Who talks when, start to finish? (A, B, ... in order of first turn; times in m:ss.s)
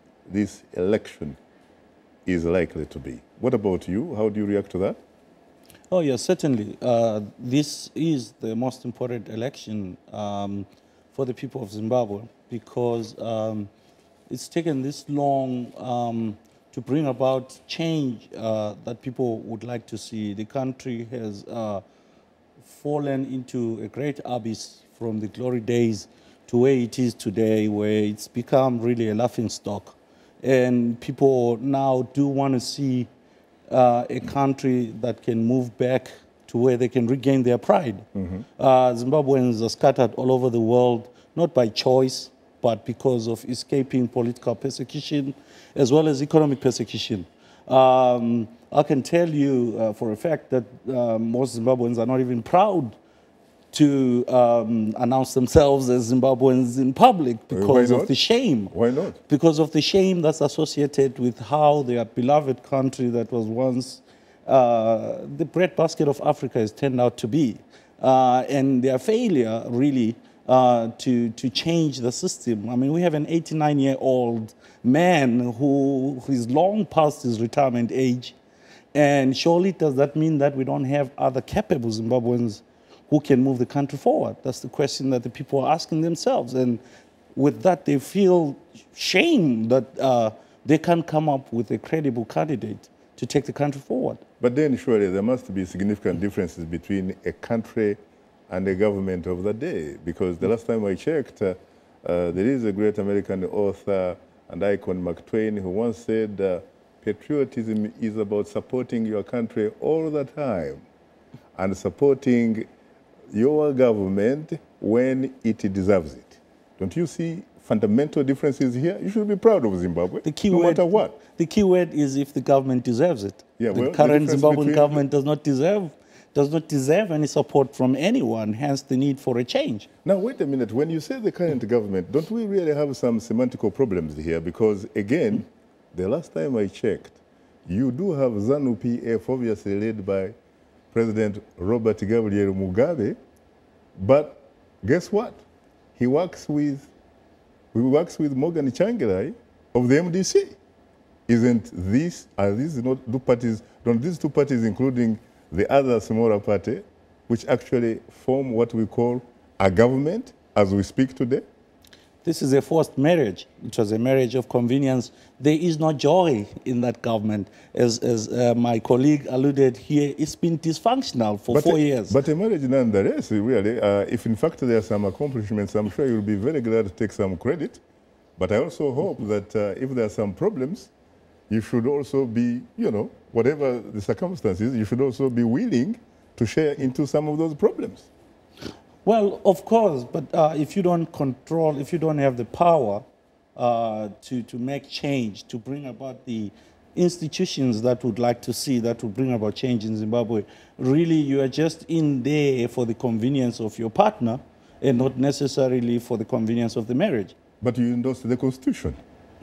0:00.3-0:01.4 A
0:02.3-0:05.0 A
0:05.9-0:13.7 B
0:14.3-0:21.8 B
0:22.6-0:33.1 B
0:33.7-0:38.1 B
0:38.6-0:53.0 B
0:53.7-0:58.7 B
0:57.5-0:58.1 A
0:58.7-0:59.2 A
0:59.3-1:18.4 B
1:18.9-1:26.8 B
1:27.3-1:34.2 B
1:34.4-1:38.0 A
1:38.5-1:50.8 A
1:51.6-1:52.7 A
1:53.3-2:01.2 A
2:00.2-2:09.9 B
2:03.6-2:05.0 A
2:10.0-2:20.3 A
2:20.9-2:23.2 A
2:24.0-2:25.4 A
2:26.0-2:26.9 A
2:27.7-2:30.6 A
2:31.3-2:41.4 A
2:42.2-2:52.2 B
2:51.5-2:57.8 A
2:58.4-3:00.9 A
3:01.5-3:08.1 A
3:09.0-3:13.0 B
3:13.6-3:27.4 B
3:27.6-3:29.0 A